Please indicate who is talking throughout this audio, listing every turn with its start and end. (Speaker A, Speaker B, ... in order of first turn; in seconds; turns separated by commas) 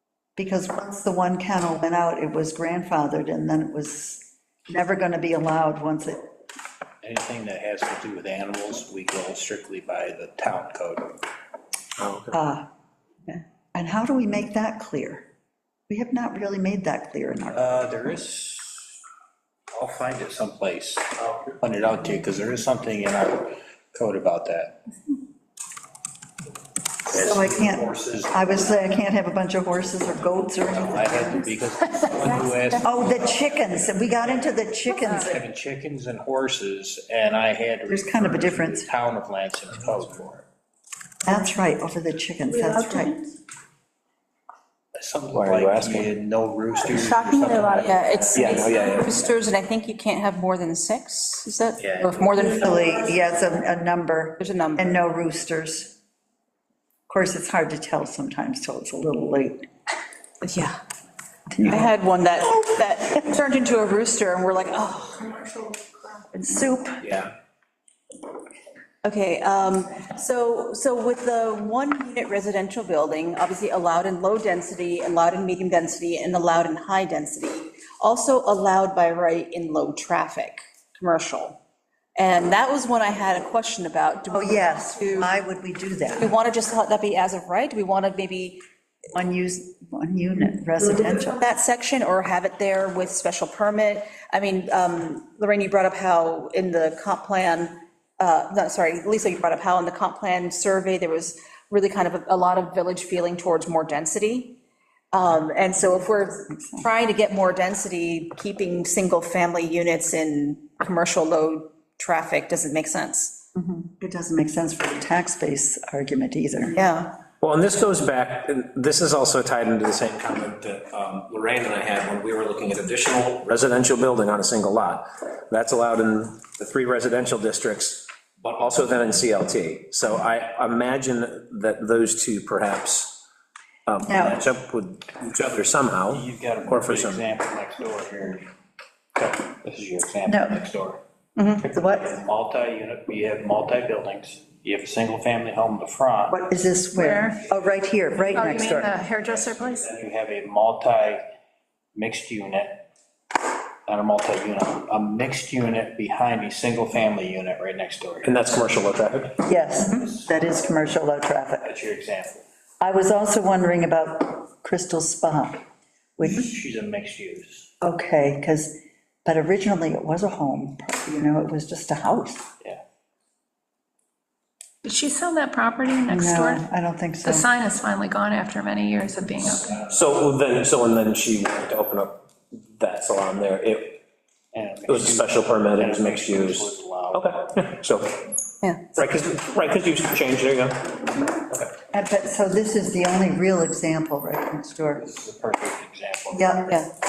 Speaker A: 0.4-6.3, Speaker B: 7.0-11.1, Speaker C: 12.0-12.4, Speaker A: 12.3-12.7, Speaker A: 13.7-15.3, Speaker A: 15.9-17.9, Speaker B: 17.5-19.0, Speaker B: 19.7-24.8, Speaker B: 27.1-28.9, Speaker A: 27.1-31.5, Speaker B: 30.7-33.6, Speaker A: 32.8-35.4, Speaker B: 34.3-40.5, Speaker A: 37.9-38.9, Speaker A: 41.2-43.2, Speaker B: 45.0-49.1, Speaker C: 45.3-46.1, Speaker D: 46.9-48.0, Speaker E: 47.8-52.7, Speaker C: 48.3-49.1, Speaker B: 51.8-52.4, Speaker A: 52.6-56.0, Speaker E: 54.4-55.0, Speaker A: 57.1-59.7, Speaker E: 60.4-60.8, Speaker A: 61.5-61.8, Speaker E: 61.6-66.2, Speaker A: 66.4-67.0, Speaker C: 67.0-67.3, Speaker E: 69.0-81.6, Speaker E: 82.2-85.3, Speaker A: 84.3-86.3, Speaker E: 86.1-88.6, Speaker A: 89.1-91.4, Speaker E: 91.3-104.6, Speaker E: 105.1-113.4, Speaker A: 106.5-106.9, Speaker A: 113.5-116.8, Speaker E: 116.7-117.2, Speaker C: 117.4-133.2, Speaker C: 133.9-137.2, Speaker A: 134.1-134.4, Speaker B: 136.1-138.5, Speaker B: 139.2-141.0, Speaker A: 140.3-140.6, Speaker E: 141.4-141.6, Speaker B: 141.6-146.4, Speaker A: 141.7-142.1, Speaker A: 146.3-148.9, Speaker D: 146.9-147.4, Speaker D: 148.3-149.9, Speaker B: 148.4-151.2, Speaker B: 151.9-152.9, Speaker B: 153.9-158.3, Speaker C: 158.2-159.4, Speaker A: 159.5-161.7, Speaker B: 159.8-160.3, Speaker B: 161.6-162.4, Speaker A: 162.8-165.6, Speaker A: 166.2-166.5, Speaker B: 166.2-167.7, Speaker A: 167.8-172.4, Speaker D: 174.8-176.6, Speaker A: 176.1-177.5, Speaker D: 177.2-179.8, Speaker C: 179.8-184.0, Speaker B: 184.5-187.2, Speaker C: 184.9-188.3, Speaker C: 188.9-191.7, Speaker A: 191.9-195.1, Speaker B: 195.0-196.7, Speaker A: 196.3-196.8